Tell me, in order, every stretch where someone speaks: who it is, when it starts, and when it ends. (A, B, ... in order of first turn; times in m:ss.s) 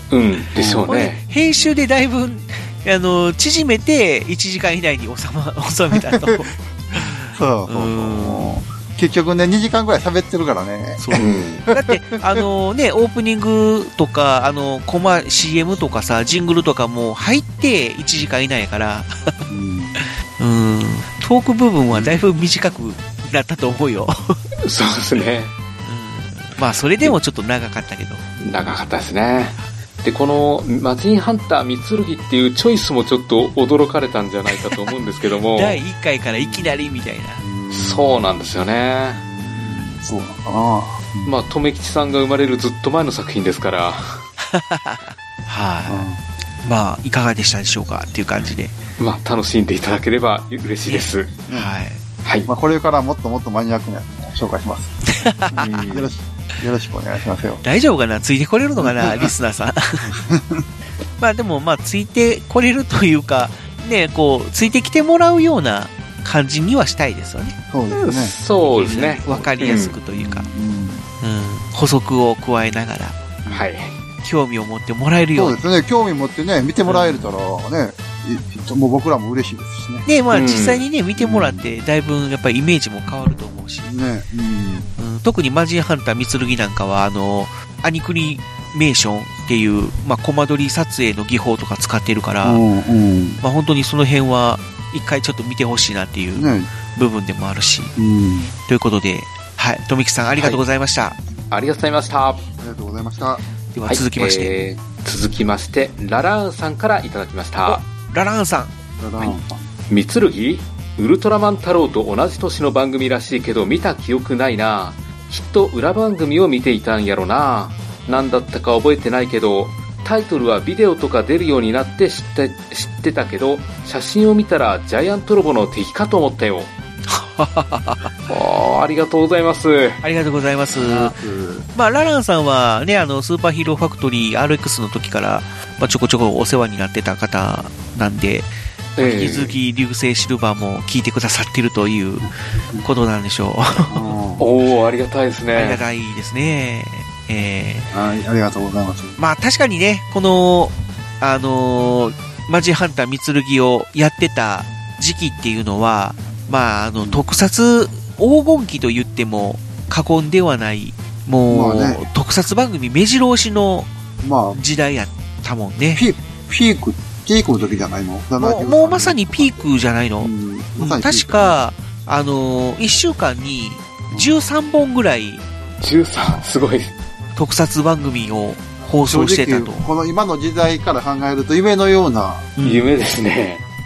0:00.1-0:01.2 A
0:00.6-0:00.9 B
0:00.9-0:08.5 C
0:05.9-0:12.4 B
0:11.0-0:19.3 C
0:11.2-0:11.6 A
0:19.5-0:20.0 B
0:20.0-0:24.4 C
0:24.6-0:25.5 A
0:25.8-0:28.3 C
0:28.4-0:35.8 A
0:34.6-0:34.9 C
0:35.6-0:37.4 C
0:36.3-0:38.3 B
0:37.7-0:39.2 A
0:39.2-0:41.3 B
0:39.6-0:40.0 C
0:41.2-0:44.2 A
0:44.5-0:46.1 C
0:45.9-0:46.2 B
0:46.6-0:48.8 C
0:49.0-0:51.3 A
0:50.9-0:52.0 C
0:52.2-0:52.5 A
0:52.5-0:55.0 B
0:55.1-0:55.8 C
0:55.5-0:56.1 A
0:55.9-0:57.6 B
0:57.6-1:00.1 C
0:58.8-0:59.3 B
1:00.1-1:00.6 B
1:01.2-1:07.6 C
1:07.7-1:09.5 B
1:07.9-1:10.0 A
1:08.8-1:10.5 C
1:10.1-1:11.1 B
1:11.2-1:13.2 C
1:13.5-1:14.0 A
1:14.2-1:15.6 C
1:15.4-1:20.1 B
1:16.9-1:17.3 C
1:20.1-1:23.9 C
1:20.3-1:20.8 A
1:21.2-1:21.7 B
1:23.8-1:24.9 B
1:25.0-1:32.6 C
1:32.4-1:33.4 B
1:33.4-1:37.9 C
1:36.4-1:36.7 B
1:38.0-1:38.5 B
1:38.6-1:41.2 C
1:41.5-1:42.4 A
1:42.6-1:43.4 B
1:43.7-1:44.6 C
1:43.9-1:47.8 A
1:47.6-1:48.7 C
1:49.0-1:49.7 B
1:49.9-2:06.7 A
2:07.1-2:08.1 C
2:08.3-2:10.0 A
2:10.0-2:11.2 C
2:10.7-2:11.7 B
2:11.8-2:22.3 C
2:19.0-2:19.6 A
2:22.8-2:24.1 C
2:23.9-2:24.5 B
2:24.4-2:25.8 A
2:25.5-2:27.9 C
2:27.9-2:29.2 B
2:29.2-2:43.9 C
2:41.5-2:42.0 B
2:44.2-2:44.6 B
2:44.5-2:46.0 C
2:46.0-2:49.5 B
2:48.4-2:55.4 C
2:50.2-2:51.6 B
2:54.1-2:54.4 B
2:55.8-2:57.0 A
2:57.4-2:59.9 C
2:59.0-3:02.5 B
3:02.6-3:02.9 C
3:02.6-3:03.6 A